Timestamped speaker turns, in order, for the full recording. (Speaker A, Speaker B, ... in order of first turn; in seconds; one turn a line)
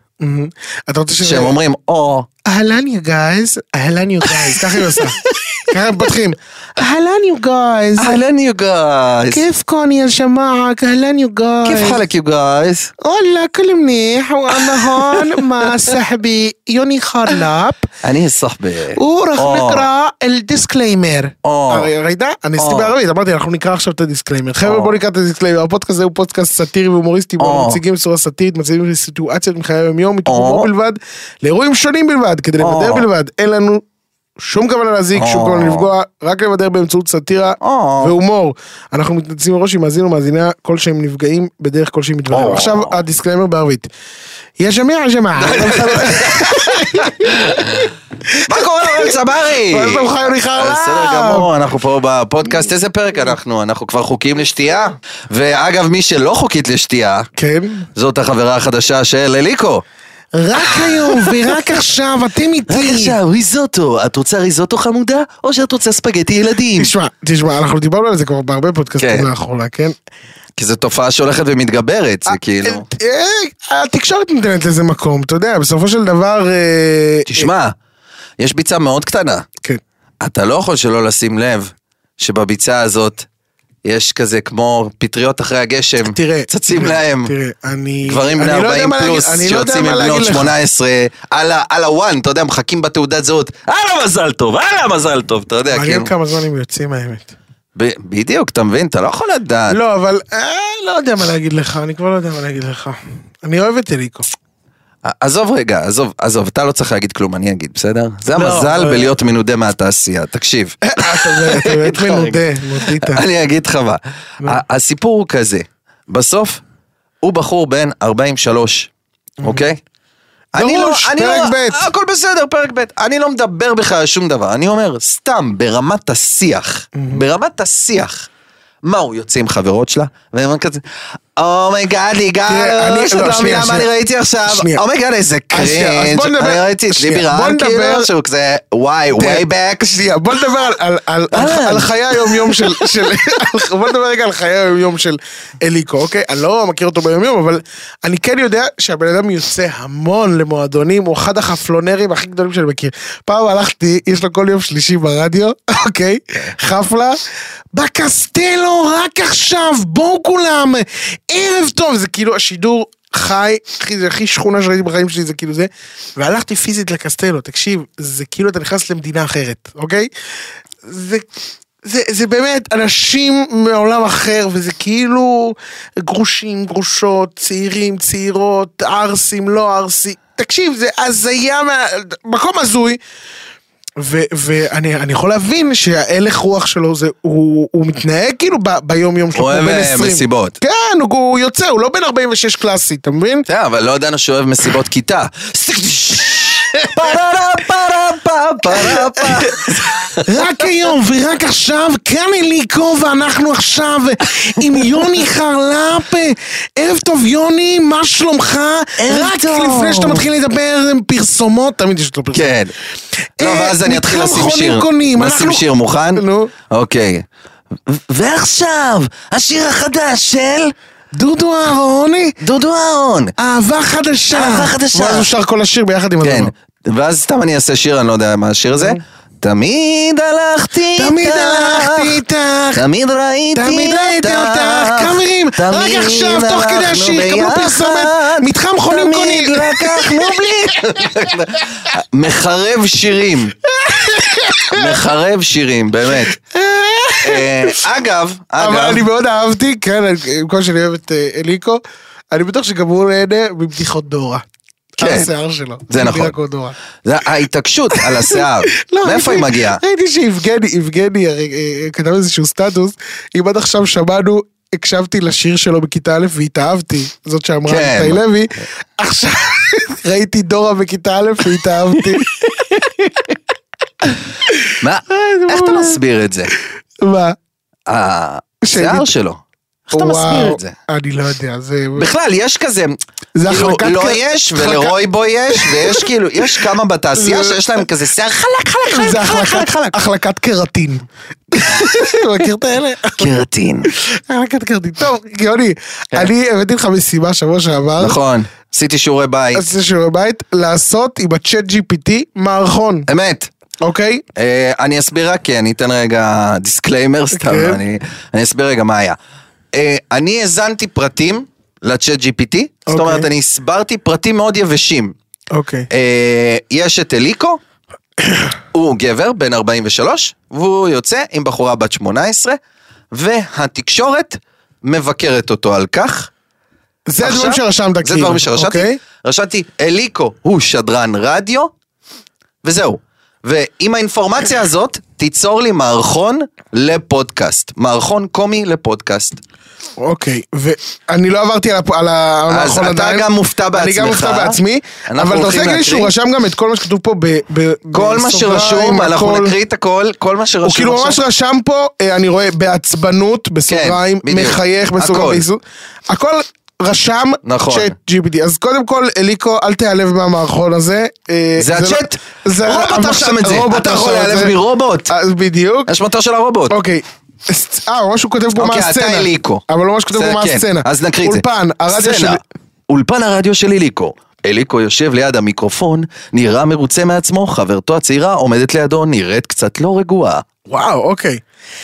Speaker A: 0.2-1.6
Speaker B: 1.2-2.3
Speaker A: 2.5-8.2
Speaker B: 4.4-5.6
Speaker B: 8.0-9.4
Speaker A: 9.3-12.0
Speaker B: 11.6-12.9
Speaker A: 13.0-17.9
Speaker B: 14.6-15.7
Speaker B: 18.0-19.9
Speaker A: 18.9-33.8
Speaker B: 21.4-21.9
Speaker B: 22.6-22.9
Speaker B: 24.6-24.9
Speaker B: 27.4-27.8
Speaker B: 30.3-30.7
Speaker B: 32.6-33.0
Speaker A: 34.4-43.9
Speaker B: 35.1-35.9
Speaker B: 37.6-38.1
Speaker B: 42.3-43.0
Speaker A: 44.6-47.7
Speaker B: 45.4-47.9
Speaker A: 48.3-51.5
Speaker B: 48.4-57.3
Speaker A: 57.4-57.9
Speaker B: 58.0-59.8
Speaker A: 60.3-63.1
Speaker B: 60.7-61.5
Speaker B: 62.7-66.9
Speaker A: 66.8-69.9
Speaker B: 69.0-69.3
Speaker B: 70.6-72.8
Speaker A: 72.3-77.5
Speaker B: 77.3-77.7
Speaker B: 78.4-79.5
Speaker B: 80.2-83.3
Speaker B: 83.8-87.3
Speaker A: 86.0-90.5
Speaker B: 88.1-96.1
Speaker A: 95.7-97.3
Speaker B: 97.8-99.8
Speaker A: 99.7-104.3
Speaker B: 105.0-116.6
Speaker A: 108.3-109.1
Speaker A: 110.8-113.2
Speaker B: 117.2-118.9
Speaker B: 119.4-119.8
Speaker B: 120.5-128.3
Speaker A: 120.5-121.9
Speaker A: 126.9-127.2
Speaker B: 128.8-130.8
Speaker B: 131.3-140.0
Speaker A: 132.5-133.9
Speaker A: 134.5-134.8
Speaker A: 135.5-138.1
Speaker A: 139.2-157.2
Speaker B: 141.3-142.8
Speaker A: 157.7-170.1
Speaker A: 170.8-171.3
Speaker A: 171.8-183.0
Speaker A: 184.0-193.4
Speaker B: 189.3-190.6
Speaker B: 193.5-200.5
Speaker A: 198.7-199.6
Speaker A: 200.2-212.5
Speaker B: 204.8-205.1
Speaker B: 209.0-210.3
Speaker B: 212.3-212.7
Speaker A: 213.4-216.5
Speaker B: 213.4-217.2
Speaker B: 217.8-220.7
Speaker A: 221.1-222.4
Speaker B: 222.4-223.3
Speaker A: 223.4-226.5
Speaker B: 224.3-225.3
Speaker B: 226.2-232.2
Speaker A: 230.9-232.8
Speaker B: 232.7-243.5
Speaker A: 233.5-241.2
Speaker A: 243.7-245.0
Speaker B: 244.7-246.3
Speaker A: 246.2-247.8
Speaker B: 247.2-249.0
Speaker A: 248.6-254.4
Speaker A: 255.0-256.8
Speaker B: 255.0-255.3
Speaker B: 255.9-256.3
Speaker B: 257.0-259.8
Speaker A: 257.9-272.3
Speaker B: 267.7-268.2
Speaker B: 272.1-273.3
Speaker B: 274.8-276.5
Speaker A: 275.3-276.0
Speaker A: 277.0-277.4
Speaker B: 277.9-280.7
Speaker A: 278.6-279.1
Speaker A: 279.9-282.1
Speaker B: 282.0-290.0
Speaker A: 283.4-285.0
Speaker A: 285.5-286.5
Speaker A: 287.1-287.8
Speaker A: 288.9-293.3
Speaker B: 291.6-292.1
Speaker B: 293.2-293.9
Speaker A: 293.9-298.2
Speaker B: 298.0-299.6
Speaker A: 299.5-303.1
Speaker B: 303.1-303.5
Speaker A: 303.8-304.2
Speaker B: 304.4-309.2
Speaker A: 307.3-307.8
Speaker B: 309.7-315.1
Speaker A: 312.9-313.3
Speaker A: 315.5-315.9
Speaker B: 315.9-317.6
Speaker A: 318.2-318.5
Speaker B: 318.7-322.6
Speaker B: 323.1-326.3
Speaker A: 327.1-329.0
Speaker B: 327.2-331.7
Speaker B: 332.6-339.4
Speaker A: 340.0-349.5
Speaker B: 342.5-346.1
Speaker B: 347.9-351.2
Speaker A: 350.6-364.5
Speaker B: 353.7-355.4
Speaker B: 357.4-357.9
Speaker B: 361.6-365.1
Speaker A: 365.1-365.9
Speaker B: 365.9-366.8
Speaker A: 366.7-372.4
Speaker B: 368.6-380.4
Speaker A: 380.7-381.4